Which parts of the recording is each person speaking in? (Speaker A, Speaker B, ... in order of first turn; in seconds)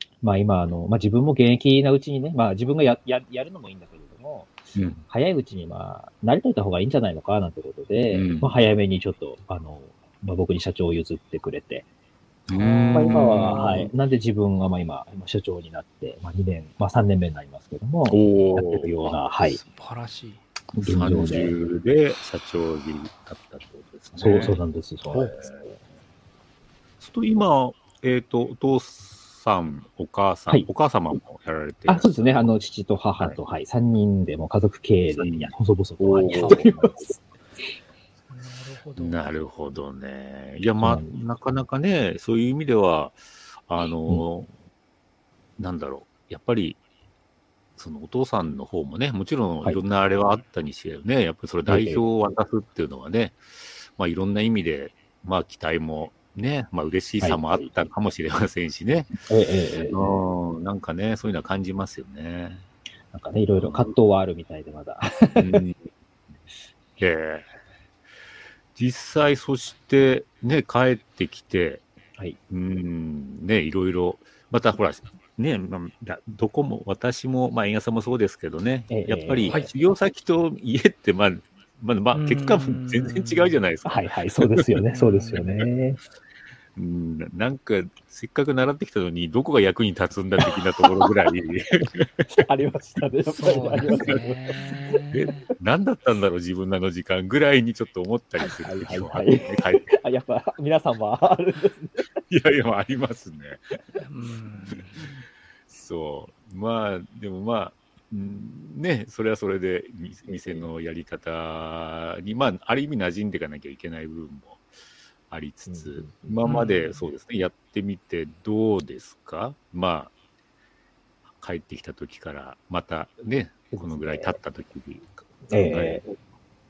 Speaker A: 0.2-4.5, 5.1-11.9, 12.9-19.6, 20.7-21.5, 24.1-25.4, 31.9-37.2, 40.8-41.1, 51.7-52.0, 57.2-57.7, 59.2-60.2, 63.1-65.6, 78.9-79.7, 83.8-86.0, 92.2-95.3, 98.5-102.1, 110.3-110.6, 115.7-116.4, 123.7-124.4, 125.5-126.0
Speaker B: 4.7-5.0, 8.1-8.6, 12.5-13.9, 18.1-18.9, 20.8-25.6, 27.0-32.5, 35.1-36.9, 39.0-44.5, 45.6-46.8, 47.8-59.1, 59.8-62.7, 63.6-63.9, 65.3-65.8, 67.0-67.5, 68.8-71.8, 72.5-85.7, 86.8-92.4, 93.8-94.2, 95.1-99.9, 102.3-103.6, 104.7-105.0, 105.7-114.7, 115.3-120.1, 121.3-126.1
Speaker C: 12.5-13.9, 19.6-20.4, 24.3-24.6, 36.3-36.6, 38.3-39.2, 82.1-83.6, 84.9-85.5, 93.3-95.5, 104.0-105.1, 116.4-116.9